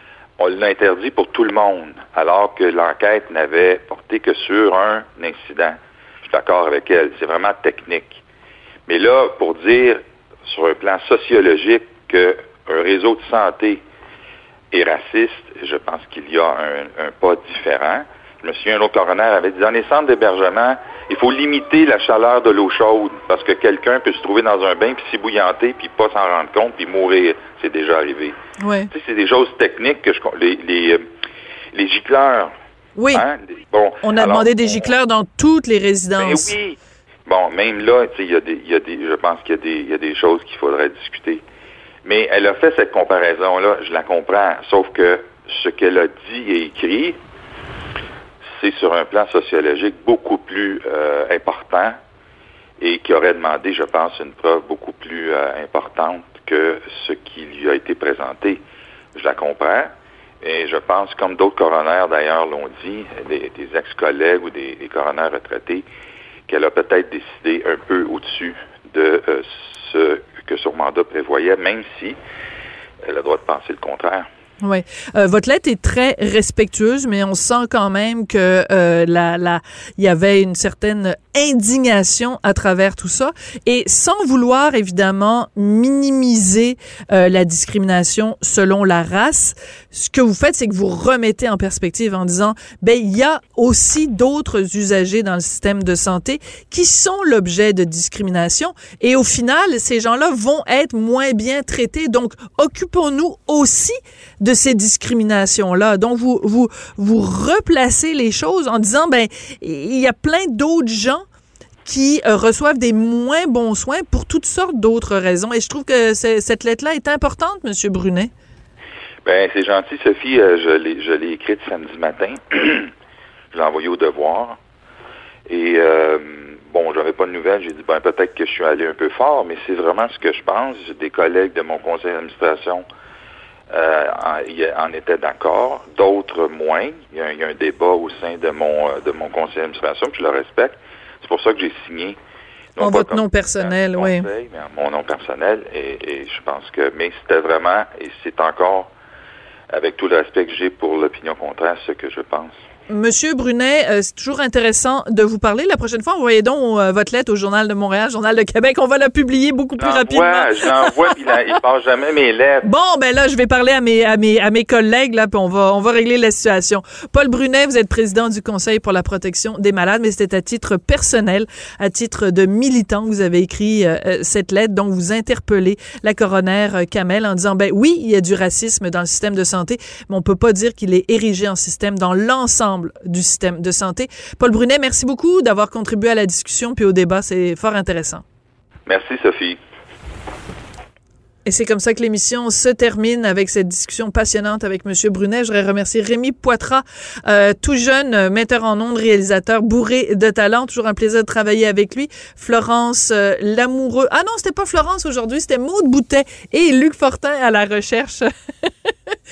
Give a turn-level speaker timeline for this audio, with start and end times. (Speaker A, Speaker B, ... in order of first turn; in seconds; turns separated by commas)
Speaker A: 0.4-8.2, Speaker A: 8.9-13.8, Speaker A: 14.7-28.4, Speaker B: 28.6-28.9, Speaker A: 28.9-31.0, Speaker A: 31.7-32.5, Speaker B: 33.0-33.3, Speaker A: 33.1-34.9, Speaker B: 34.0-36.5, Speaker A: 36.2-41.4, Speaker A: 42.0-47.2, Speaker A: 48.5-52.0, Speaker A: 52.8-58.6, Speaker A: 59.1-59.9, Speaker A: 60.4-65.8, Speaker A: 66.5-72.2, Speaker A: 73.1-74.3, Speaker B: 74.6-111.2, Speaker B: 111.8-118.3, Speaker A: 119.2-122.9, Speaker A: 123.5-124.6, Speaker A: 125.5-132.9, Speaker A: 133.7-142.2, Speaker A: 142.8-148.9, Speaker B: 142.8-144.3, Speaker A: 149.7-152.6, Speaker B: 152.9-161.2, Speaker A: 159.8-162.7, Speaker B: 162.6-188.2, Speaker A: 188.9-189.6, Speaker B: 191.4-208.9